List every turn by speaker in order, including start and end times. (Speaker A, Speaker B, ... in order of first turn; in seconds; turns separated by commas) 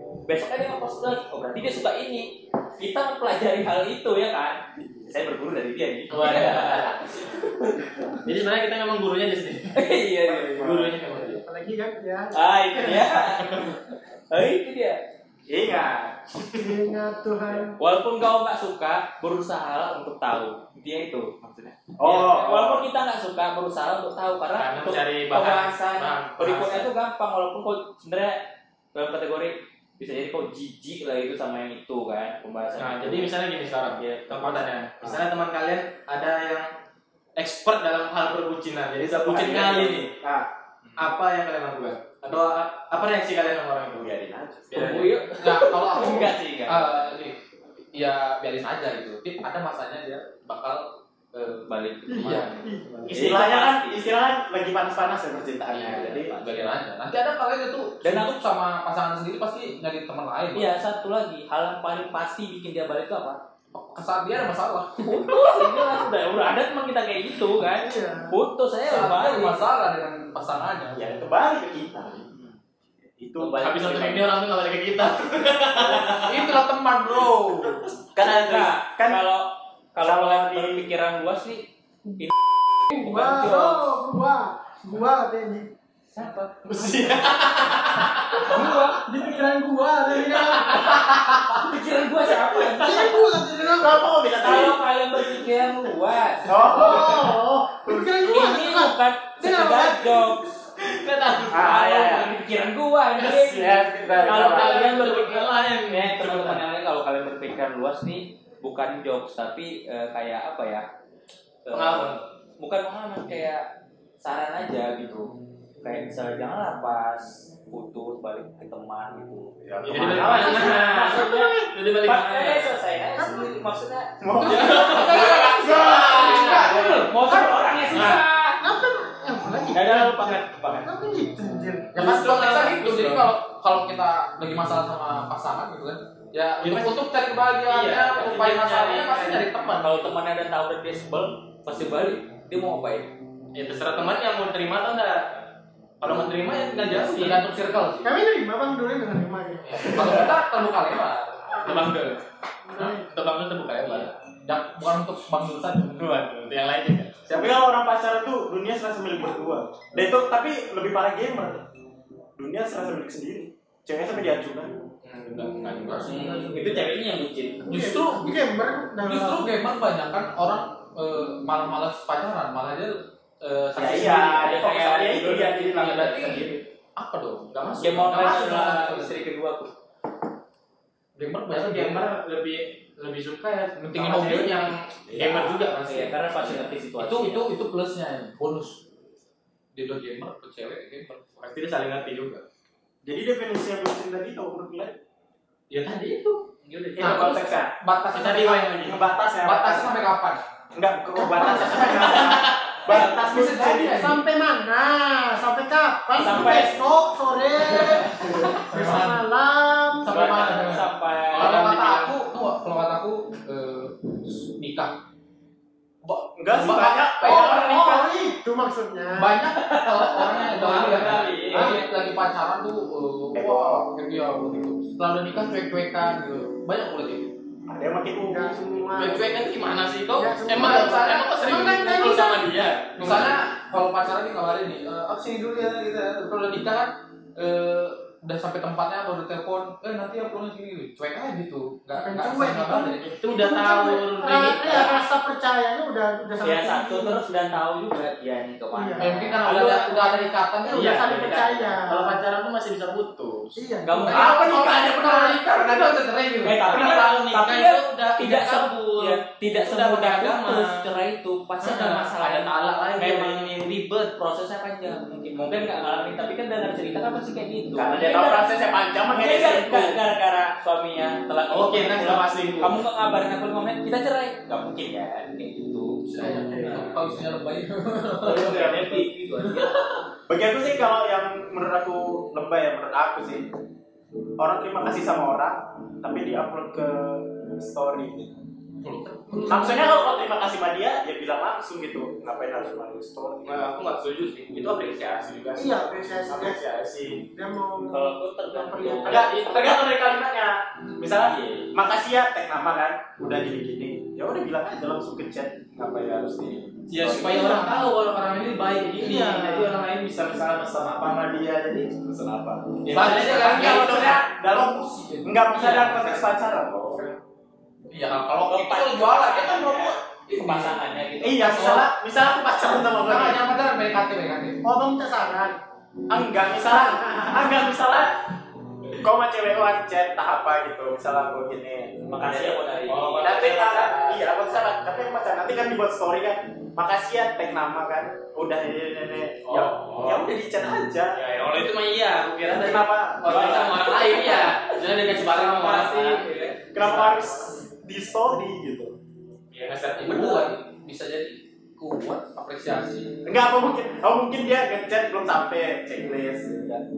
Speaker A: 0.3-8.0, Speaker B: 6.1-7.1, Speaker B: 8.2-9.8, Speaker A: 9.8-10.7, Speaker C: 10.3-10.9, Speaker B: 10.5-11.4, Speaker D: 11.1-12.4, Speaker A: 12.3-15.0, Speaker B: 12.9-13.8, Speaker C: 15.5-16.7, Speaker D: 16.6-17.8, Speaker A: 17.8-21.4, Speaker C: 21.4-22.9, Speaker A: 22.0-28.4, Speaker B: 24.6-26.9, Speaker A: 28.9-33.3, Speaker B: 32.8-36.7, Speaker A: 34.0-34.7, Speaker B: 37.4-40.1, Speaker C: 39.0-40.5, Speaker B: 40.9-44.1, Speaker C: 43.9-44.9, Speaker A: 44.7-47.1, Speaker E: 44.7-47.4, Speaker E: 47.9-52.8, Speaker A: 51.7-52.6, Speaker D: 52.3-52.9, Speaker C: 53.1-56.4, Speaker A: 53.1-54.1, Speaker A: 55.7-56.7, Speaker E: 56.4-60.7, Speaker A: 58.0-58.3, Speaker A: 60.5-63.4, Speaker E: 63.7-65.6, Speaker A: 65.0-69.6, Speaker D: 67.8-68.3, Speaker E: 68.9-71.1, Speaker C: 70.9-72.5, Speaker C: 73.2-74.3, Speaker A: 73.4-73.8, Speaker B: 73.5-76.5, Speaker C: 75.9-76.1, Speaker E: 76.2-77.9, Speaker C: 77.7-79.2, Speaker A: 78.2-81.7, Speaker C: 80.0-80.9, Speaker A: 82.2-83.8, Speaker D: 82.9-85.7, Speaker A: 86.2-86.5, Speaker B: 86.5-88.6, Speaker D: 88.3-91.1, Speaker A: 88.4-89.0, Speaker B: 90.3-91.3, Speaker A: 91.5-93.2, Speaker D: 92.8-94.1, Speaker C: 93.7-94.8, Speaker A: 94.4-97.2, Speaker C: 96.5-98.1, Speaker D: 96.6-100.5, Speaker A: 98.3-100.5, Speaker B: 100.8-101.8, Speaker C: 101.5-102.3, Speaker A: 101.6-110.8, Speaker B: 103.2-106.6, Speaker C: 103.5-104.8, Speaker A: 111.7-113.7, Speaker B: 111.7-112.2, Speaker A: 114.2-115.3, Speaker A: 115.8-124.1, Speaker C: 119.6-120.7, Speaker B: 119.8-122.8, Speaker D: 120.2-121.7, Speaker D: 123.2-123.5, Speaker C: 124.2-128.0, Speaker E: 124.4-127.2, Speaker B: 124.4-127.1, Speaker A: 124.8-128.6, Speaker B: 128.0-128.2, Speaker D: 128.6-132.0, Speaker A: 129.7-130.9, Speaker E: 131.9-140.0, Speaker B: 132.0-133.3, Speaker B: 136.6-137.0, Speaker B: 137.7-139.5, Speaker A: 139.8-143.1, Speaker B: 143.5-145.3, Speaker B: 146.0-147.4, Speaker E: 146.9-148.1, Speaker D: 148.0-150.3, Speaker E: 149.7-151.8, Speaker B: 151.6-152.2, Speaker D: 152.7-153.0, Speaker B: 152.8-154.1, Speaker E: 154.4-156.1, Speaker B: 156.0-157.5, Speaker C: 157.3-161.6, Speaker C: 162.4-164.7, Speaker B: 165.1-166.8, Speaker E: 165.7-166.2, Speaker A: 166.1-167.6, Speaker D: 167.7-169.5, Speaker E: 167.7-168.5, Speaker E: 169.0-174.6, Speaker C: 173.8-176.4, Speaker A: 173.8-176.5, Speaker E: 175.9-179.2, Speaker B: 177.5-178.8, Speaker A: 177.8-179.7, Speaker E: 181.2-182.1, Speaker B: 181.5-186.6, Speaker E: 183.8-184.8, Speaker C: 185.1-185.6, Speaker A: 185.9-187.5, Speaker E: 187.0-188.8, Speaker E: 189.8-191.5, Speaker B: 191.4-192.4, Speaker C: 193.0-195.0, Speaker B: 195.7-197.4, Speaker C: 197.0-197.7, Speaker E: 197.0-198.8, Speaker B: 198.1-199.0, Speaker C: 198.8-200.1, Speaker E: 199.4-200.4, Speaker C: 200.7-204.0, Speaker D: 201.2-202.3, Speaker B: 202.0-202.8, Speaker E: 202.9-204.2, Speaker D: 203.6-210.3, Speaker A: 206.1-206.8, Speaker E: 208.3-209.2, Speaker E: 210.1-215.0, Speaker B: 210.1-212.2, Speaker A: 210.1-211.6, Speaker E: 216.0-217.7, Speaker C: 216.4-218.1, Speaker D: 217.2-219.4, Speaker E: 219.2-227.3, Speaker A: 219.7-221.8, Speaker B: 220.6-221.3, Speaker C: 223.3-223.8, Speaker C: 227.7-228.9, Speaker D: 228.2-229.3, Speaker B: 228.9-233.4, Speaker D: 230.2-232.6, Speaker E: 230.5-231.3, Speaker E: 233.0-243.2, Speaker D: 242.0-247.2, Speaker B: 243.1-245.0, Speaker A: 244.6-244.9, Speaker A: 246.4-249.8, Speaker D: 248.7-249.2, Speaker E: 249.0-251.1, Speaker B: 249.4-250.1, Speaker D: 250.6-252.2, Speaker B: 250.7-253.6, Speaker D: 253.6-254.3, Speaker A: 253.8-254.8, Speaker E: 254.0-256.6, Speaker C: 254.1-255.9, Speaker A: 256.4-268.5, Speaker B: 256.6-260.9, Speaker B: 261.6-263.6, Speaker C: 267.8-270.0, Speaker A: 269.1-276.9, Speaker B: 271.5-272.8, Speaker E: 276.1-278.9, Speaker A: 278.2-279.9, Speaker C: 278.3-278.7, Speaker C: 280.3-283.5, Speaker C: 284.4-288.3, Speaker E: 288.8-289.9, Speaker C: 289.5-293.7, Speaker B: 293.4-295.9, Speaker D: 295.6-296.6, Speaker C: 296.3-297.2, Speaker D: 297.3-299.3, Speaker A: 297.9-299.3, Speaker B: 299.1-299.6, Speaker C: 299.1-307.5, Speaker B: 306.9-311.9, Speaker D: 307.2-307.9, Speaker D: 309.0-309.8, Speaker C: 311.9-317.0, Speaker B: 312.8-314.2, Speaker E: 312.9-316.2, Speaker B: 315.6-316.1, Speaker E: 317.9-320.8, Speaker A: 318.5-321.8, Speaker C: 321.2-323.4, Speaker E: 321.5-321.8, Speaker E: 323.0-324.6, Speaker D: 324.6-325.6, Speaker C: 326.1-328.2, Speaker C: 329.0-332.6, Speaker A: 332.1-333.6, Speaker B: 332.9-334.2, Speaker C: 333.1-341.2, Speaker B: 339.5-340.3, Speaker B: 341.1-346.3, Speaker C: 342.4-343.7, Speaker A: 343.3-346.6, Speaker C: 346.7-348.9, Speaker B: 346.8-347.3, Speaker B: 349.5-350.5, Speaker E: 350.0-353.2, Speaker C: 353.2-356.9